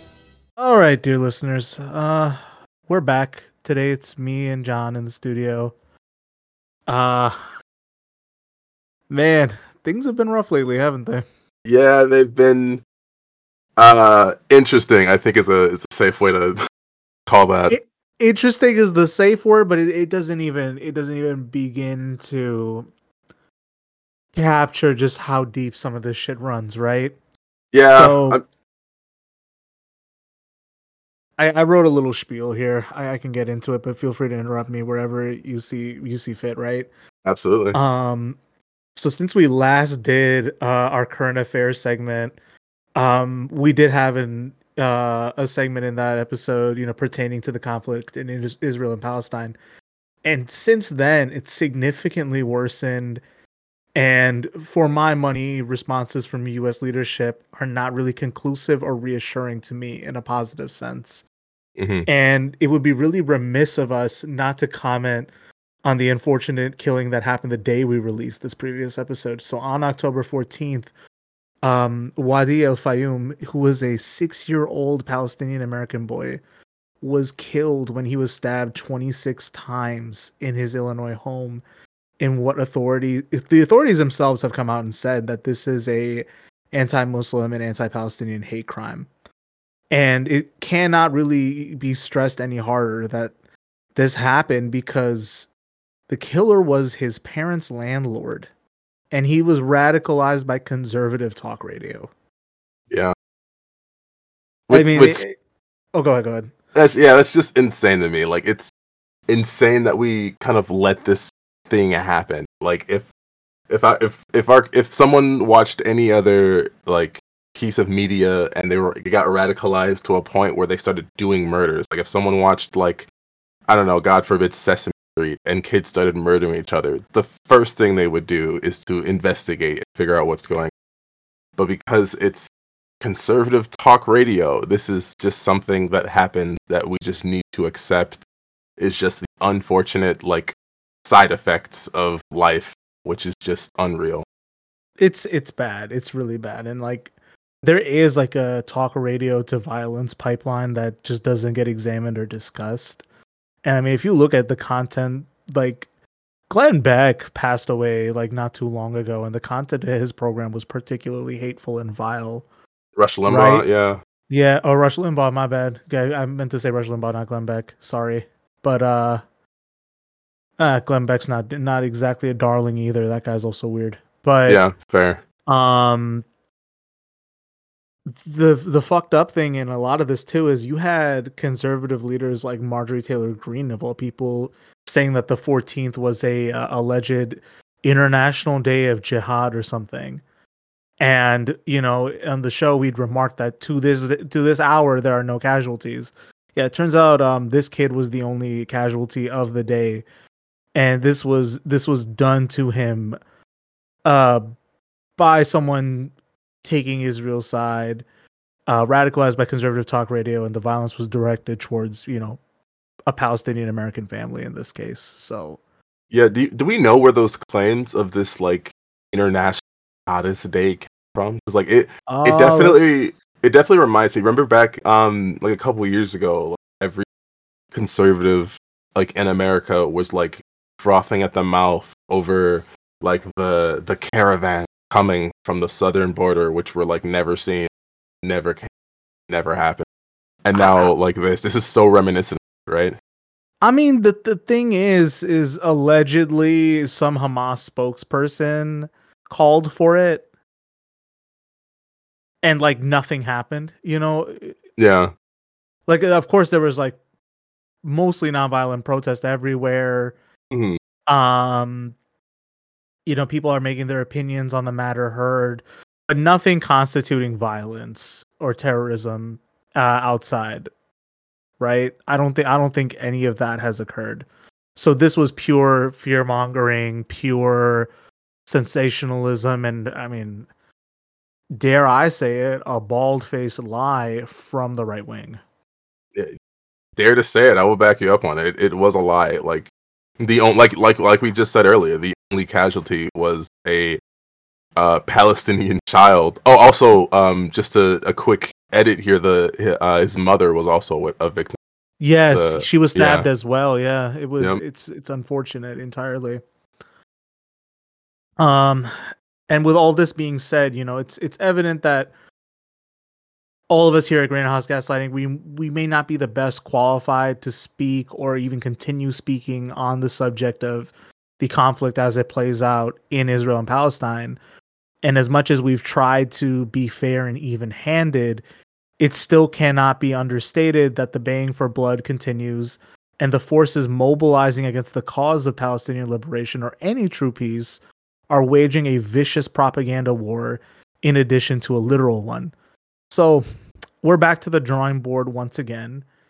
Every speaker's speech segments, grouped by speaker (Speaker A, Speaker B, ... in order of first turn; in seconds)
Speaker A: 0.6-5.7, 6.9-7.4, 9.1-11.2, 17.7-22.9, 24.3-27.1, 27.9-28.4, 31.4-36.9, 37.7-38.4, 39.0-42.4, 43.0-49.6, 50.2-53.2, 54.0-61.2, 62.1-65.3, 65.8-70.9, 71.6-76.4, 77.0-81.6, 82.2-89.1, 89.9-93.3, 93.9-95.5, 96.1-98.5, 99.1-102.1, 104.7-105.3, 105.9-106.5, 145.0-147.1, 147.6-153.0, 153.6-155.9, 156.5-162.4, 163.3-163.7, 164.3-169.2, 170.6-174.6, 175.5-176.2, 178.1-190.2, 191.0-200.0, 200.7-203.2, 204.1-204.4, 205.2-206.1, 206.6-208.0, 208.7-212.4, 213.1-215.6, 222.1-223.0, 243.6-250.2, 252.4-254.6, 255.9-257.0, 257.8-260.1, 261.1-261.9, 263.1-270.7, 271.6-277.9, 278.4-280.5, 281.5-285.4, 302.0-306.4, 308.4-308.9, 309.5-312.1, 313.7-324.4, 325.0-328.4, 329.0-342.5, 343.1-343.4, 344.0-346.1
Speaker B: 11.6-12.8, 13.8-16.6, 17.3-17.7, 27.7-28.4, 37.2-37.8, 61.8-62.1, 104.7-105.2, 106.7-108.7, 109.3-113.1, 113.7-123.1, 123.7-130.7, 131.6-132.5, 133.0-138.2, 138.8-144.2, 163.0-164.0, 174.5-175.2, 216.1-227.1, 227.7-237.7, 238.2-238.7, 239.3-239.8, 240.4-242.9, 254.8-255.1, 260.5-260.8, 286.9-294.0, 294.8-301.6, 302.3-303.3